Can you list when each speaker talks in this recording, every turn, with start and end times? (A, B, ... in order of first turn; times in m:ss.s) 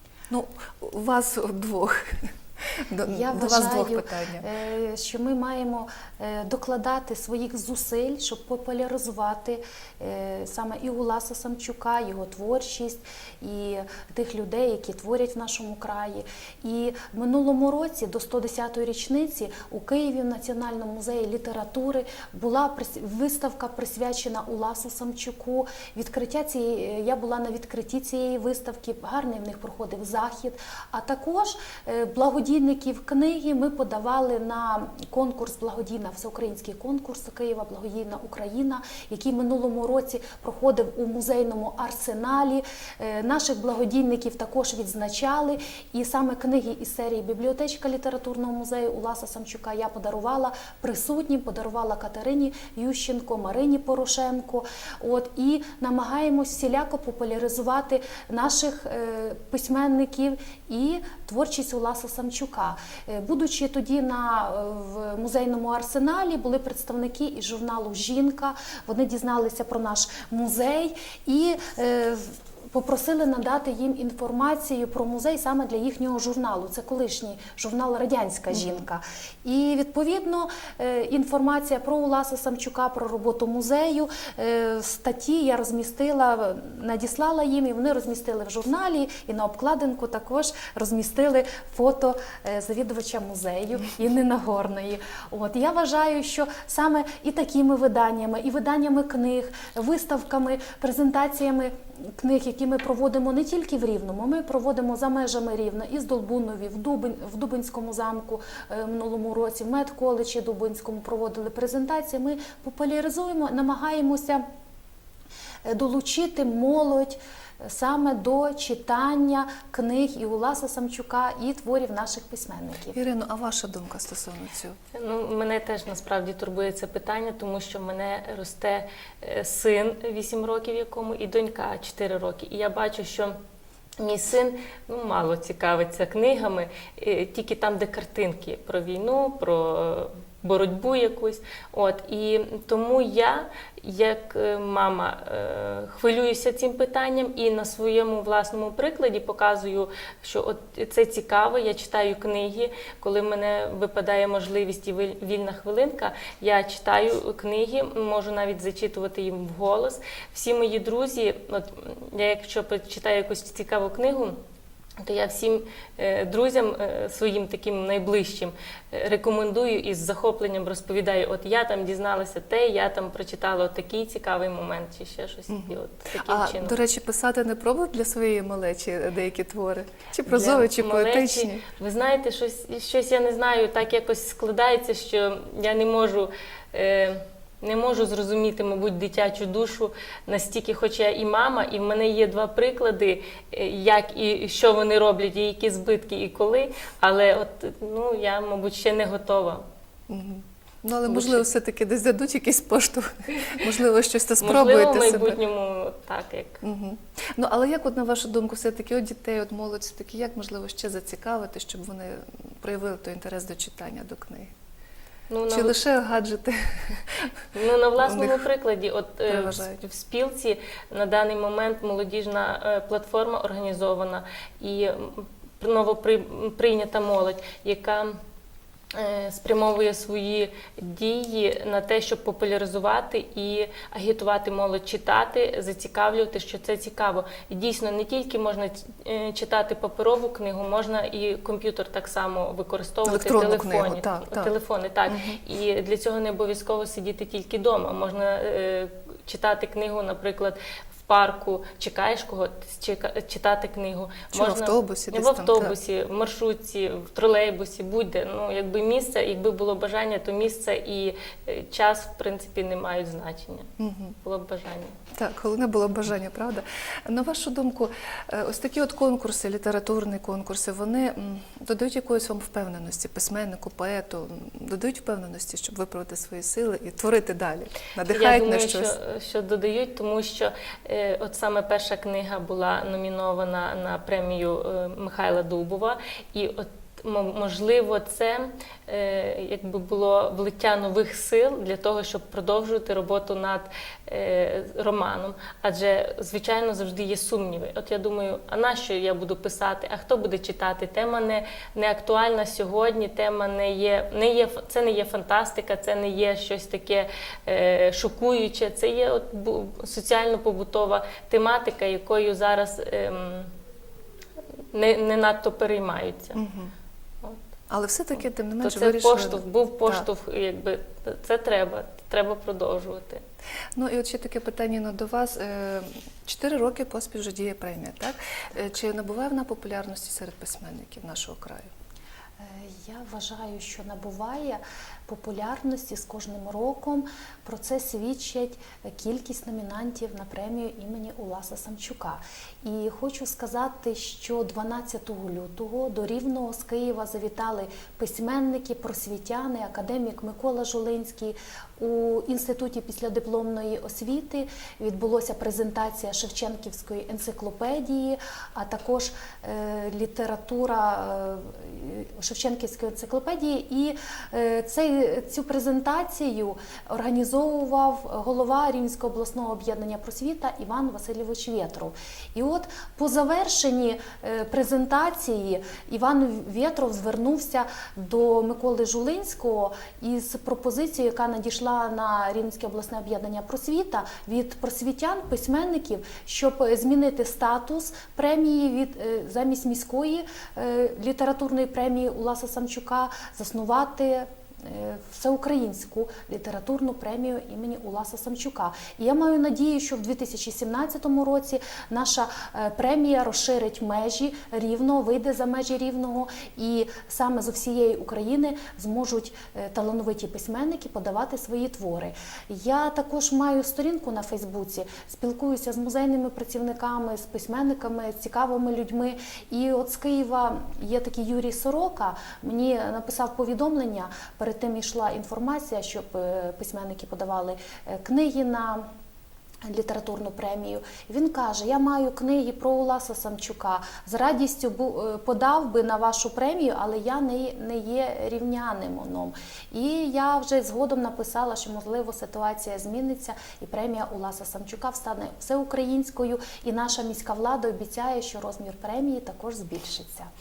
0:00.3-0:04.4 A
0:03.1-1:54.4 B
1:18.5-1:18.8 A
1:55.6-2:03.0 B
2:02.9-2:04.8 A
2:04.9-2:13.4 C
2:14.0-2:44.4 C
2:45.0-2:56.8 C
2:55.5-3:01.6 A
3:00.3-3:19.6 C
3:20.1-3:25.4 A
3:21.1-3:21.4 C
3:24.4-3:26.6 C
3:26.6-3:34.5 A
3:35.3-3:35.7 C
3:35.5-3:37.3 A
3:37.5-3:48.2 C
3:38.0-3:38.5 A
3:39.3-3:39.8 A
3:48.9-4:24.9 C
4:03.0-4:04.5 A
4:05.1-4:05.4 A
4:14.3-4:15.8 A
4:23.8-4:24.2 A
4:25.1-4:38.9 A
4:38.1-5:13.5 C
5:14.7-5:16.4 C
5:16.4-5:16.7 A
5:17.7-5:20.1 A
5:18.6-5:23.2 C
5:23.7-5:31.7 A
5:32.4-7:08.9 B
7:09.6-7:30.3 B